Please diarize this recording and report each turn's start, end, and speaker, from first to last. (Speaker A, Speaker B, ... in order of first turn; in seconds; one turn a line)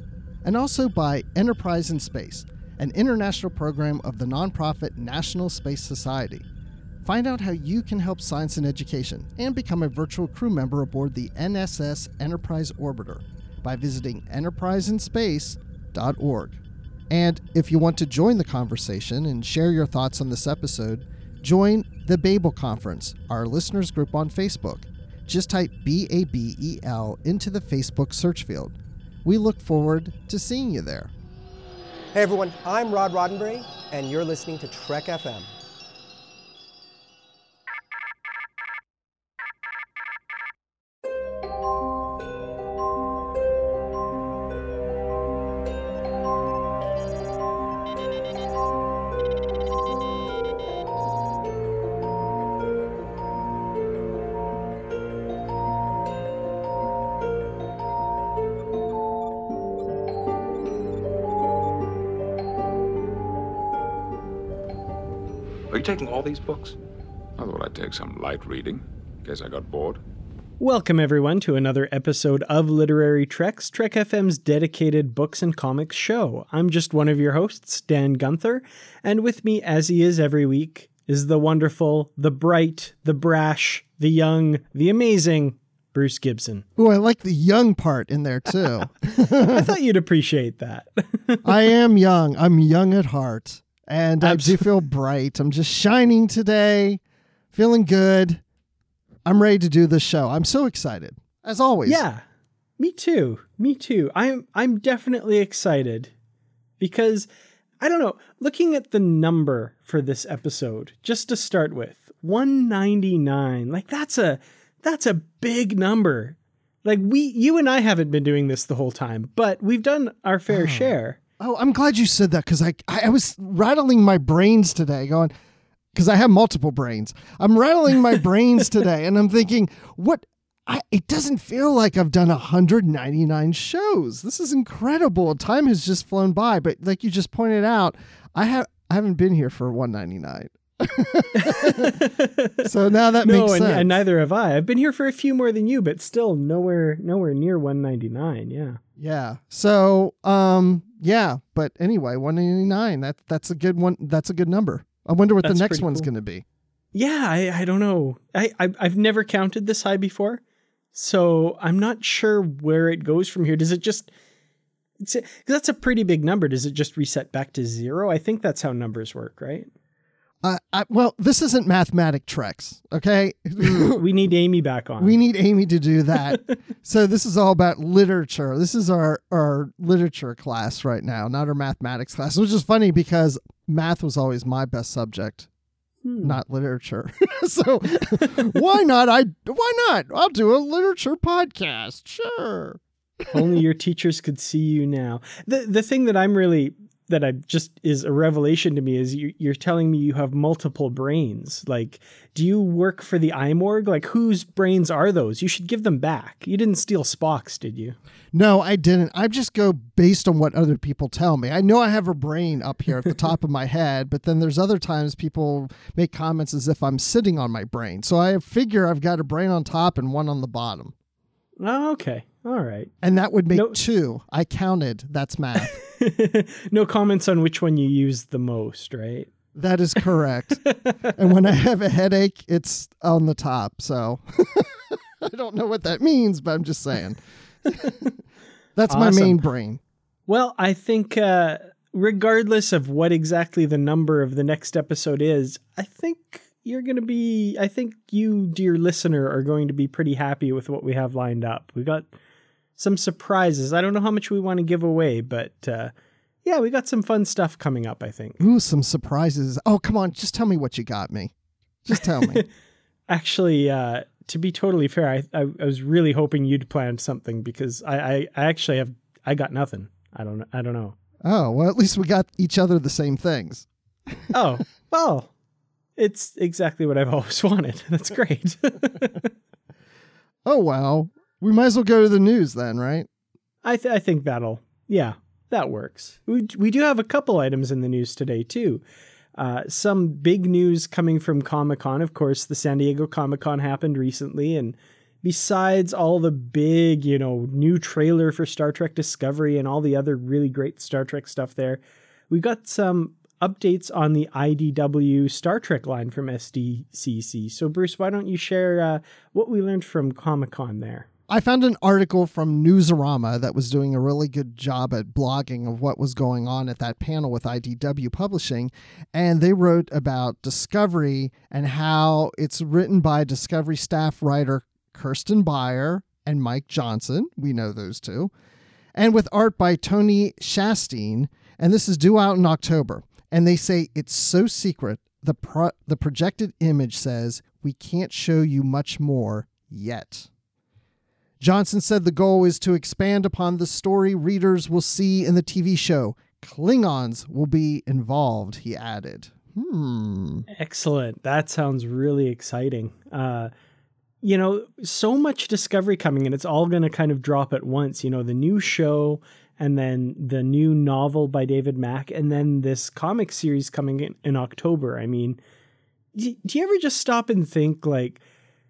Speaker A: 0.4-6.5
Speaker A: 7.0-31.1
Speaker B: 32.1-35.5
Speaker C: 65.7-66.8
Speaker C: 67.4-70.0
Speaker D: 70.6-86.7
Speaker A: 86.8-89.7
Speaker D: 89.1-91.7
Speaker A: 91.5-97.0
Speaker D: 94.2-94.7
Speaker A: 97.5-98.4
Speaker A: 99.2-102.0
Speaker D: 101.9-102.2
Speaker D: 102.8-106.1
Speaker D: 106.8-107.3
Speaker D: 107.8-121.2
Speaker A: 120.5-125.3
Speaker A: 125.9-142.0
Speaker D: 141.4-142.7
Speaker A: 142.6-143.9
Speaker D: 143.2-148.8
Speaker A: 149.0-156.4
Speaker D: 155.4-156.1
Speaker D: 156.9-160.4
Speaker D: 160.9-164.1
Speaker D: 165.0-169.7
Speaker A: 170.4-174.0
Speaker D: 173.6-175.2
Speaker A: 175.0-185.5
Speaker D: 186.1-186.4
Speaker A: 186.2-192.8
Speaker D: 188.1-188.6
Speaker D: 193.3-208.0
Speaker A: 208.3-220.9
Speaker D: 221.6-222.9
Speaker A: 223.0-225.8
Speaker D: 223.5-223.8
Speaker D: 225.6-229.3
Speaker A: 229.6-230.6
Speaker D: 230.7-231.2
Speaker A: 231.1-237.2
Speaker A: 237.7-238.1
Speaker A: 238.8-239.8
Speaker D: 238.9-239.4
Speaker D: 240.3-252.1
Speaker D: 252.8-255.9
Speaker D: 256.4-258.4
Speaker A: 258.4-261.3
Speaker A: 261.9-262.4
Speaker D: 262.0-262.5
Speaker D: 263.1-271.0
Speaker A: 271.2-274.2
Speaker D: 274.3-275.3
Speaker D: 276.0-279.3
Speaker A: 280.4-283.1
Speaker D: 283.6-288.8
Speaker D: 289.4-311.1
Speaker A: 311.3-328.3
Speaker A: 328.9-340.3
Speaker A: 341.4-350.5
Speaker D: 350.5-353.5
Speaker D: 354.2-365.4
Speaker D: 366.1-368.2